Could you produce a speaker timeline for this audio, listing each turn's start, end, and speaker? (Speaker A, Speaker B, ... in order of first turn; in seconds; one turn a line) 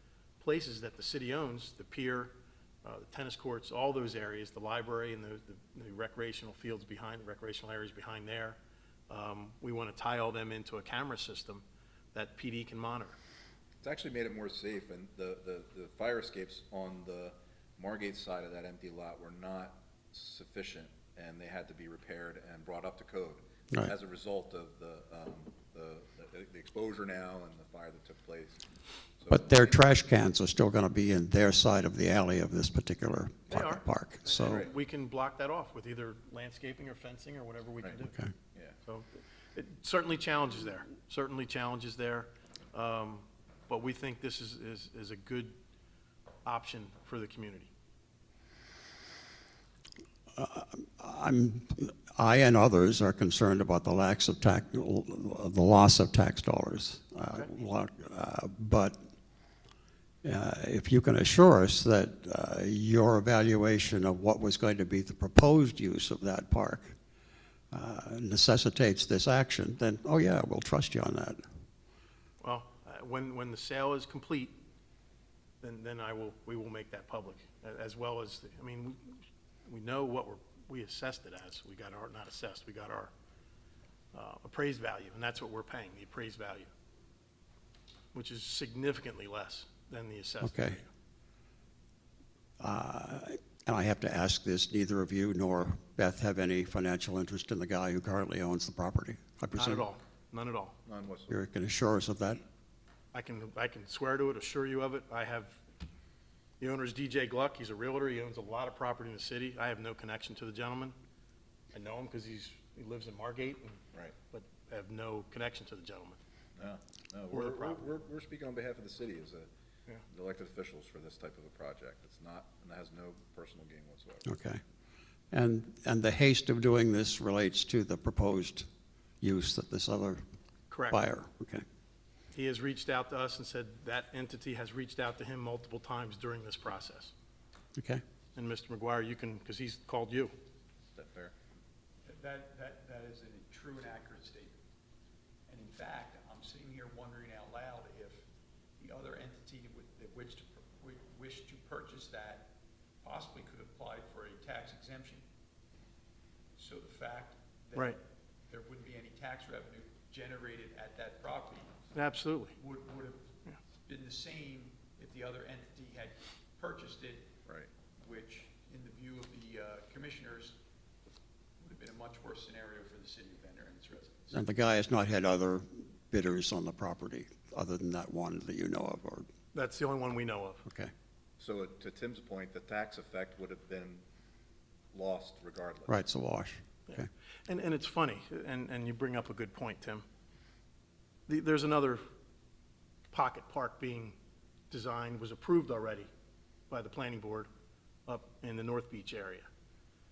Speaker A: 0.4-13.2
Speaker B: 13.8-28.6
Speaker B: 29.2-29.8
Speaker C: 29.3-34.6
Speaker A: 33.5-38.2
Speaker B: 34.4-34.7
Speaker A: 38.8-45.6
Speaker A: 46.4-47.7
Speaker C: 50.3-59.0
Speaker C: 60.2-66.9
Speaker C: 67.7-71.4
Speaker A: 72.4-74.6
Speaker A: 75.6-83.1
Speaker A: 84.1-86.7
Speaker A: 88.1-90.9
Speaker C: 90.4-90.8
Speaker C: 92.6-99.8
Speaker A: 99.5-100.8
Speaker B: 100.8-101.3
Speaker C: 101.3-102.4
Speaker A: 103.1-105.6
Speaker A: 106.6-111.0
Speaker A: 111.7-116.2
Speaker B: 116.5-119.5
Speaker A: 117.3-117.9
Speaker B: 120.1-124.3
Speaker C: 124.3-124.6
Speaker C: 125.3-128.7
Speaker C: 129.2-130.2
Speaker A: 130.7-131.0
Speaker C: 130.9-131.6
Speaker A: 132.3-137.1
Speaker C: 137.7-138.0
Speaker A: 138.3-140.3
Speaker B: 140.9-141.3
Speaker D: 142.1-144.6
Speaker D: 145.5-148.2
Speaker D: 148.8-155.2
Speaker D: 156.6-161.8
Speaker A: 161.9-162.6
Speaker D: 162.6-167.3
Speaker D: 168.0-170.6
Speaker D: 171.6-174.4
Speaker C: 174.3-179.3
Speaker A: 179.5-180.6
Speaker C: 180.7-180.9
Speaker B: 181.4-184.0
Speaker B: 184.9-186.0
Speaker C: 185.9-187.1
Speaker A: 186.9-190.1
Speaker A: 191.3-192.0
Speaker A: 193.1-194.2
Speaker A: 194.7-196.1
Speaker A: 196.7-197.5
Speaker A: 198.1-199.5